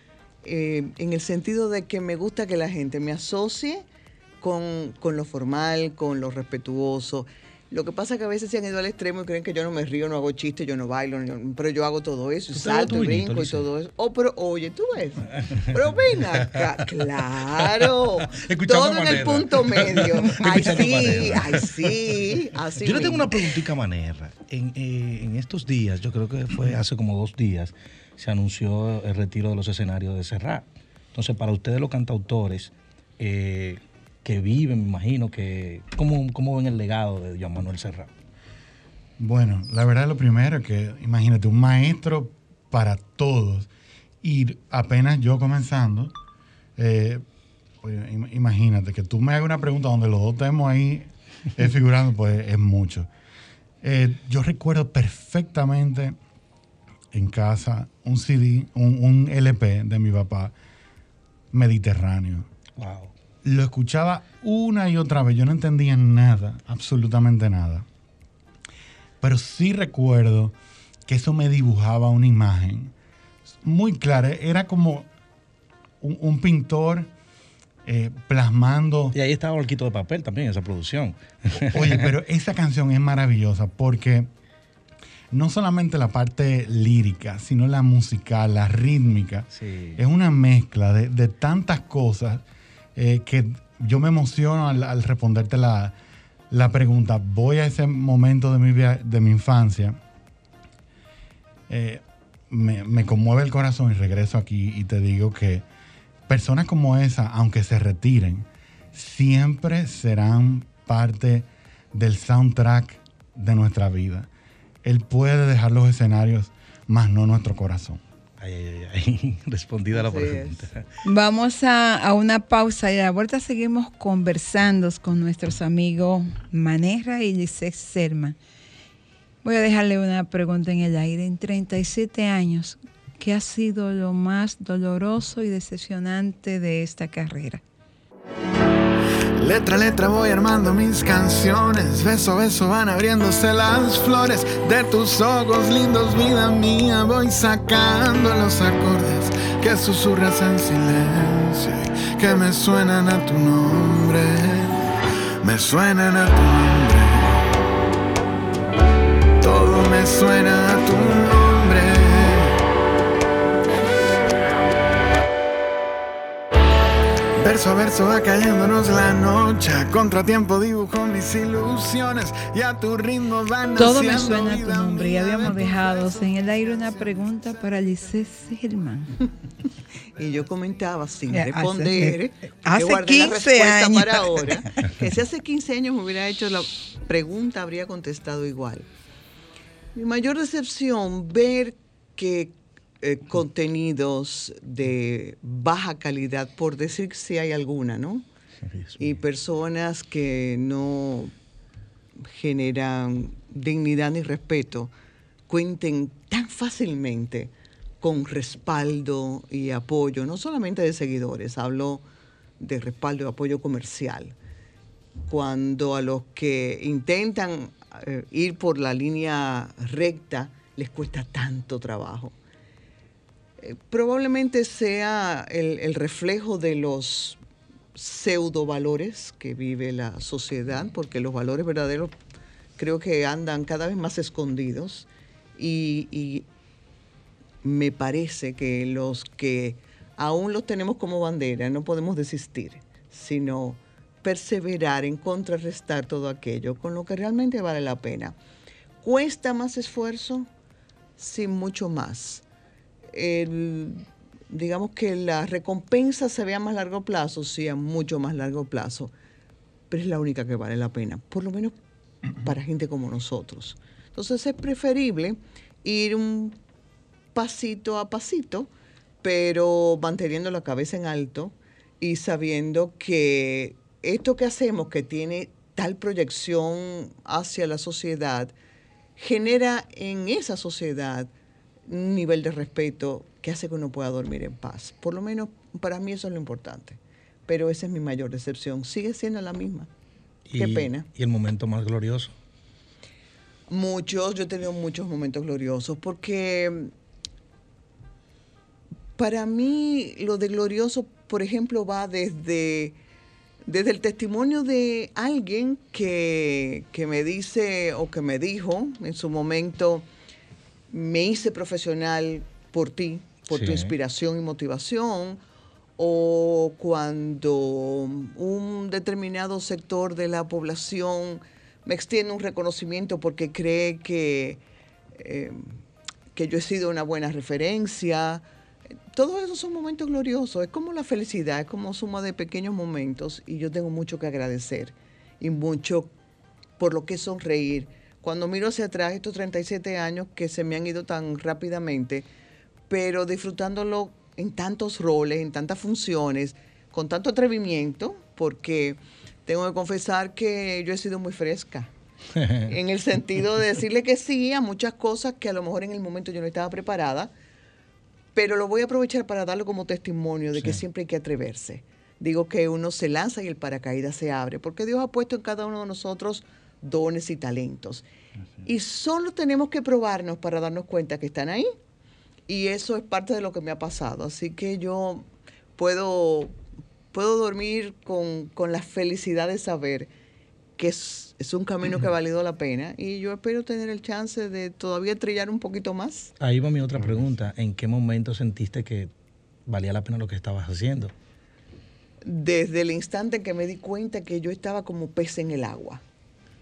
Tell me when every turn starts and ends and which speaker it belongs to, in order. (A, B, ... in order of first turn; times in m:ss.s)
0:00.4-0:03.8 A
0:04.4-0:23.6 A
0:12.5-0:13.7 B
0:16.2-0:16.6 B
0:17.6-0:38.1 B
0:39.2-0:43.7 C
0:44.2-0:46.1 C
0:46.8-0:47.2 C
0:47.8-0:53.1 C
0:53.8-0:56.2 C
0:57.1-1:00.5 C
1:01.5-1:02.5 C
1:02.8-1:03.1 B
1:03.4-1:07.8 C
1:09.2-1:10.5 C
1:11.0-1:12.9 C
1:13.6-1:15.1 C
1:16.0-1:17.1 C
1:17.8-1:19.2 C
1:19.1-1:22.1 B
1:21.6-1:24.3 C
1:25.3-1:32.4 C
1:29.5-1:30.0 B
1:33.0-1:35.9 C
1:36.5-1:40.0 C
1:41.7-1:45.6 C
1:46.3-1:54.3 C
1:54.8-1:58.0 C
1:58.4-2:00.8 B
1:59.9-2:00.7 A
2:01.0-2:08.4 D
2:09.4-2:17.6 D
2:19.4-2:34.8 E
2:35.4-2:37.4 E
2:39.4-2:42.6 E
2:47.4-2:56.3 E
2:53.8-2:59.1 D
3:00.2-3:08.9 A
3:01.3-3:04.6 D
3:09.9-3:18.2 A
3:18.6-3:19.2 B
3:19.0-3:21.3 A
3:22.2-3:24.9 A
3:25.5-3:32.0 A
3:32.6-3:34.3 A
3:35.3-3:42.3 A
3:43.6-3:47.4 A
3:47.9-3:52.1 A
3:52.8-3:56.4 A
3:57.6-4:08.4 A
4:09.0-4:10.5 A
4:11.2-4:12.4 A
4:13.1-4:19.1 A
4:19.9-4:21.8 A
4:22.4-4:26.6 A
4:27.3-4:28.7 A
4:29.2-4:38.5 A
4:39.2-4:41.3 A
4:41.9-4:49.9 A
4:50.5-4:52.3 B
4:50.6-4:51.1 A
4:53.7-4:56.9 A
4:59.2-5:03.0 A
5:03.7-5:10.0 A
5:10.9-5:15.4 A
5:13.5-5:13.9 B
5:16.0-5:24.6 A
5:25.2-5:25.8 A
5:26.3-5:28.4 A
5:29.1-5:36.1 A
5:36.8-5:42.3 A
5:42.9-5:51.9 A
5:52.7-5:57.3 A
5:58.3-6:08.0 A
6:08.6-6:11.7 A
6:12.5-6:16.5 A
6:17.1-6:20.1 A
6:20.8-6:26.3 A
6:26.4-6:29.1 B
6:29.6-6:31.1 B
6:32.2-6:36.0 A